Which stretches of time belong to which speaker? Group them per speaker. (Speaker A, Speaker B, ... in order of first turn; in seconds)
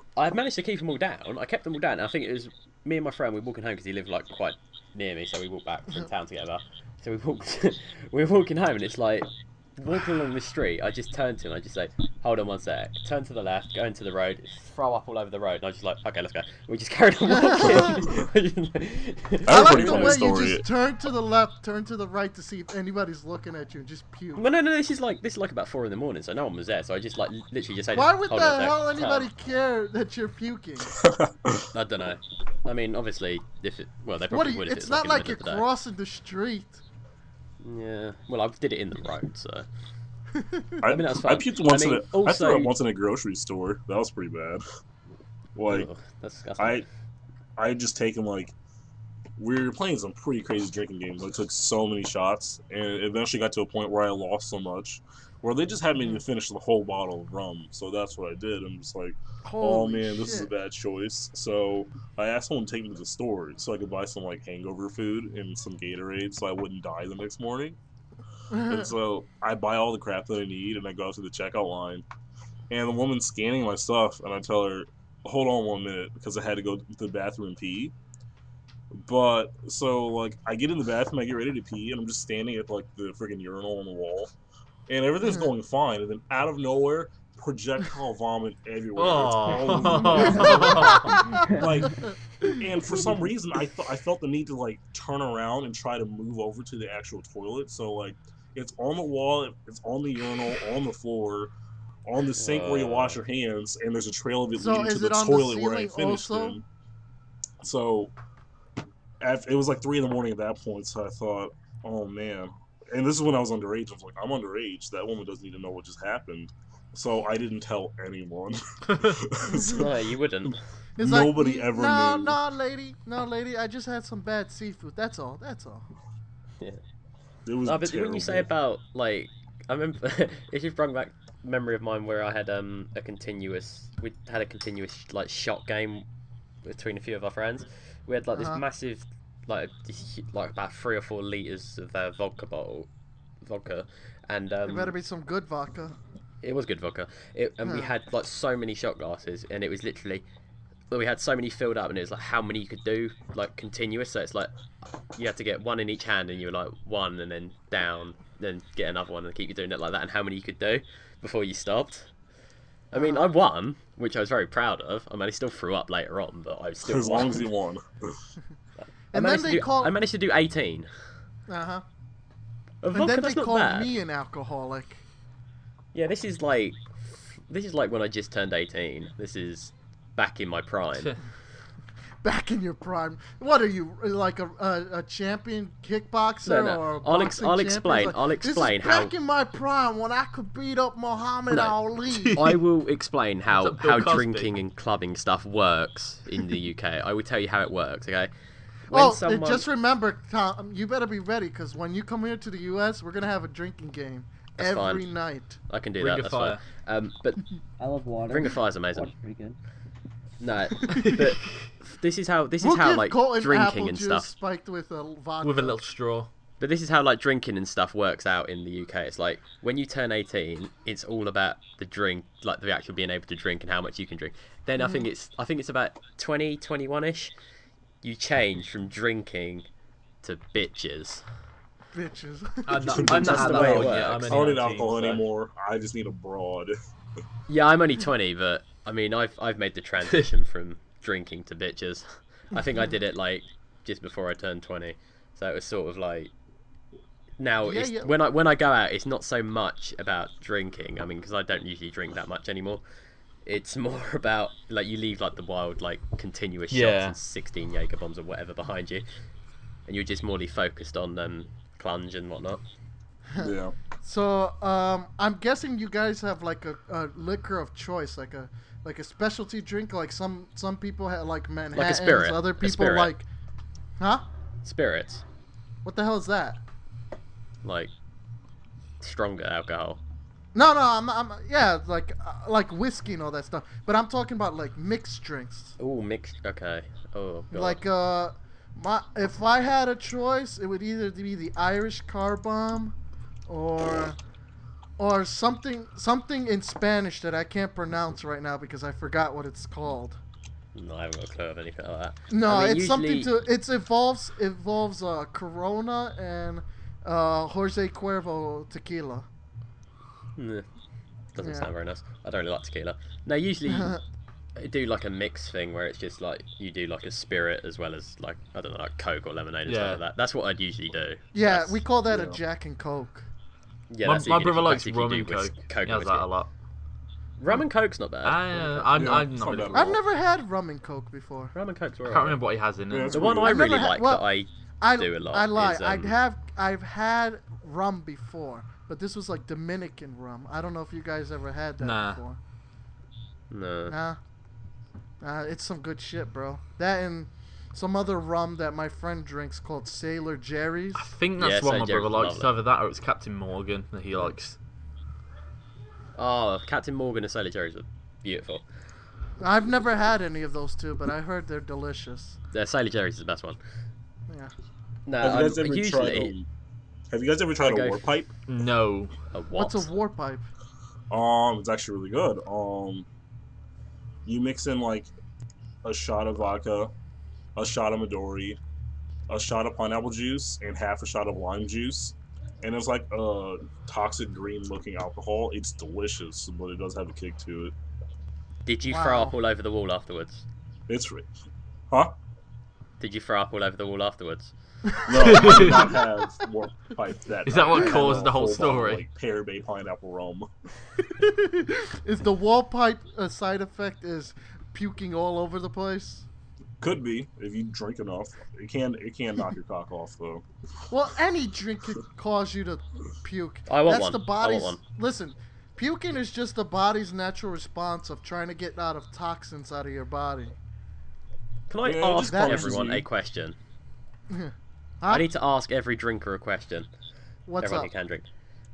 Speaker A: 0.1-20.3, 24.4-29.3, 31.7-35.6, 37.6-39.7, 40.9-42.8, 45.7-46.9, 102.3-103.2, 119.6-120.6, 127.6-136.1, 136.6-142.9, 143.4-144.9, 146.4-150.2, 150.9-154.5, 155.1-162.1, 162.9-167.4, 169.1-170.9, 172.8-173.9, 175.9-181.1, 186.4-189.1, 191.5-191.8, 192.3-198.3, 198.9-199.7, 204.6-205.0, 205.7-207.4, 208.3-209.1, 210.4-214.3, 216.6-227.3, 228.0-229.7, 230.2-231.2, 233.0-235.2, 237.5-246.3, 247.4-252.8, 253.4-259.0, 259.9-262.6, 271.7-273.1, 274.6-275.2, 277.6-277.9, 279.0-280.0, 285.8-287.8, 300.7-303.3, 310.4-310.6, 311.3-313.9, 314.6-321.8, 323.9-326.3, 327.4-329.6, 331.5-332.4, 333.1-336.1, 343.5-343.9, 351.4-352.5, 356.1-358.6, 362.5-363.6, 365.1-366.3, 367.6-368.1, 369.3-369.9, 388.6-390.4, 393.0-394.5, 413.7-414.8, 421.7-423.6, 425.1-426.9, 427.6-428.3
Speaker B: 17.3-18.0, 19.5-24.4, 27.9-31.0, 34.3-36.8, 40.4-40.7, 59.4-60.5, 68.5-68.9, 85.2-85.5, 90.0-91.5, 104.5-106.6, 119.5-119.8, 121.0-125.9, 138.3-138.6, 144.7-145.9, 147.7-147.9, 162.9-163.3, 169.1-169.9, 171.5-171.8, 172.9-175.0, 182.2-192.5, 198.9-205.6, 212.6-215.8, 224.8-225.1, 231.9-233.5, 247.6-248.1, 264.0-273.2, 274.0-274.2, 275.8-276.6, 280.5-285.7, 287.5-292.9, 293.5-294.2, 295.0-300.2, 302.3-309.3, 311.4-311.7, 313.7-314.0, 321.3-323.3, 329.7-331.5, 333.3-334.2, 334.8-342.4, 343.9-344.2, 345.2-351.1, 359.4-362.4, 369.5-370.4, 388.8-389.4, 394.9-396.0, 401.2-406.2, 410.9-420.5, 422.3-422.7, 424.3-425.3, 427.5-427.9
Speaker C: 19.4-20.6, 31.0-31.7, 40.8-44.6, 45.5-45.9, 46.6-46.8, 47.6-48.5, 49.4-67.8, 68.6-72.0, 72.7-77.9, 78.9-84.3, 84.9-101.5, 102.0-106.6, 107.6-108.1, 109.2-119.9, 120.5-122.4, 127.5-128.5, 166.8-168.2, 232.8-236.7, 263.4-263.7, 328.9-330.0, 332.9-333.6, 365.2-366.5, 367.1-368.3, 371.1-373.1, 374.2-375.1, 375.8-376.9, 377.6-378.6, 379.3-387.7, 390.9-391.3, 395.1-400.5, 406.8-410.4, 421.8-423.1
Speaker D: 89.0-91.4, 118.9-119.2, 192.1-192.6, 193.5-194.5, 206.0-206.6, 210.9-211.2, 215.4-216.3, 232.7-235.2, 256.7-257.1, 319.7-320.0, 324.0-326.5, 328.2-329.8, 332.1-333.3, 341.8-342.2, 350.9-354.6, 368.5-369.1, 395.2-395.9, 397.4-399.0
Speaker E: 91.2-92.0, 207.8-209.6